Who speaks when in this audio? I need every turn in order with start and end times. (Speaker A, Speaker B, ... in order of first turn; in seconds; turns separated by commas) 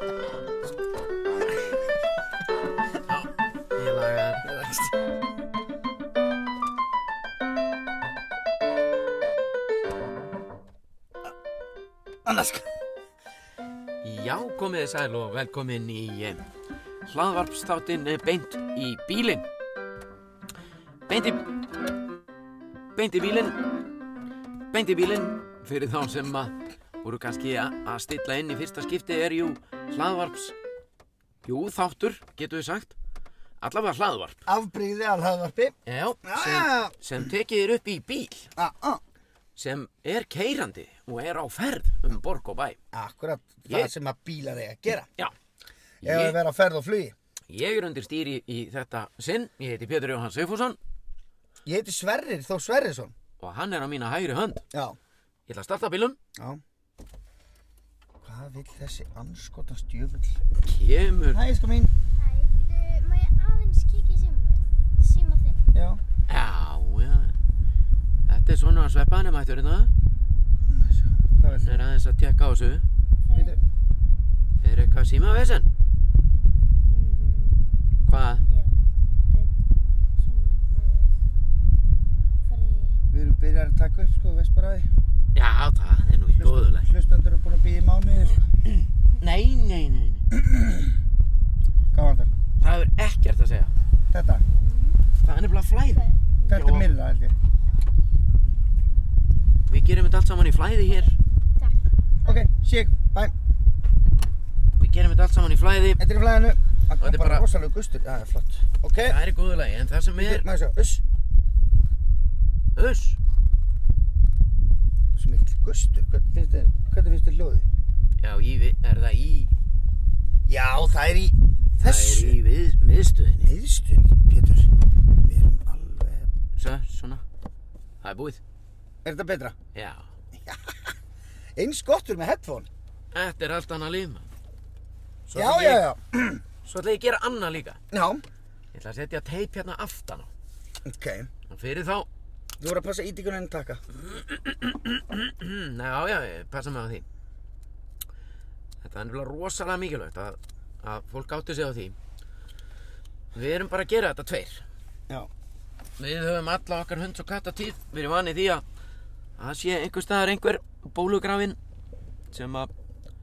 Speaker A: 3.1-4.5, Speaker B: 4.4-4.9, Speaker B: 12.2-12.7, Speaker A: 14.0-16.4, Speaker A: 17.1-19.4, Speaker A: 21.1-21.4, Speaker A: 22.9-23.6, Speaker A: 24.7-30.6, Speaker A: 31.4-32.9, Speaker A: 33.6-34.4, Speaker B: 34.5-37.3, Speaker A: 35.9-38.5, Speaker B: 38.6-39.0, Speaker A: 39.5-42.8, Speaker B: 42.9-45.1, Speaker A: 43.7-43.9, Speaker A: 46.0-46.4, Speaker B: 46.0-47.1, Speaker A: 47.5-50.8, Speaker B: 51.6-53.1, Speaker A: 53.4-54.6, Speaker B: 54.7-55.0, Speaker A: 55.5-56.2, Speaker B: 56.4-56.6, Speaker B: 58.2-60.4, Speaker A: 60.6-61.4, Speaker B: 61.3-61.9, Speaker C: 62.1-65.6, Speaker B: 65.7-66.0, Speaker A: 66.3-67.3, Speaker A: 68.3-69.9, Speaker B: 70.7-71.8, Speaker A: 71.5-72.8, Speaker C: 73.2-73.6, Speaker A: 74.6-75.7, Speaker C: 76.9-77.6, Speaker A: 78.0-78.5, Speaker C: 78.5-78.8, Speaker C: 80.2-81.1, Speaker C: 82.5-83.0, Speaker B: 83.1-84.9, Speaker A: 85.3-86.9, Speaker B: 86.4-88.5, Speaker A: 88.7-90.2, Speaker B: 90.3-91.0, Speaker B: 91.9-92.3, Speaker A: 92.6-93.7, Speaker B: 94.1-94.5, Speaker C: 94.5-95.0, Speaker A: 95.2-96.9, Speaker C: 95.9-96.6, Speaker B: 96.5-97.3, Speaker A: 99.7-101.2, Speaker C: 101.6-102.5, Speaker B: 102.2-103.3, Speaker A: 104.8-106.0, Speaker B: 106.0-109.2, Speaker A: 107.0-107.5, Speaker A: 109.0-110.4, Speaker B: 110.2-111.0, Speaker A: 112.8-113.2, Speaker B: 115.2-117.7, Speaker A: 118.2-119.5, Speaker B: 120.5-122.4, Speaker A: 121.8-123.5, Speaker B: 123.4-124.7, Speaker B: 125.2-126.3, Speaker A: 126.5-127.2, Speaker A: 128.0-128.4, Speaker B: 129.0-129.6, Speaker A: 129.7-130.1, Speaker B: 130.3-130.9, Speaker B: 131.6-132.7, Speaker A: 133.1-134.3, Speaker A: 135.3-135.8, Speaker B: 135.3-136.4, Speaker A: 136.6-137.8, Speaker B: 137.9-138.2, Speaker A: 138.7-140.3, Speaker B: 140.8-141.3, Speaker A: 141.5-142.1, Speaker B: 142.6-143.8, Speaker A: 143.9-147.0, Speaker A: 148.8-151.9, Speaker A: 153.3-154.6, Speaker A: 156.0-158.6, Speaker A: 159.4-161.6, Speaker A: 162.3-162.7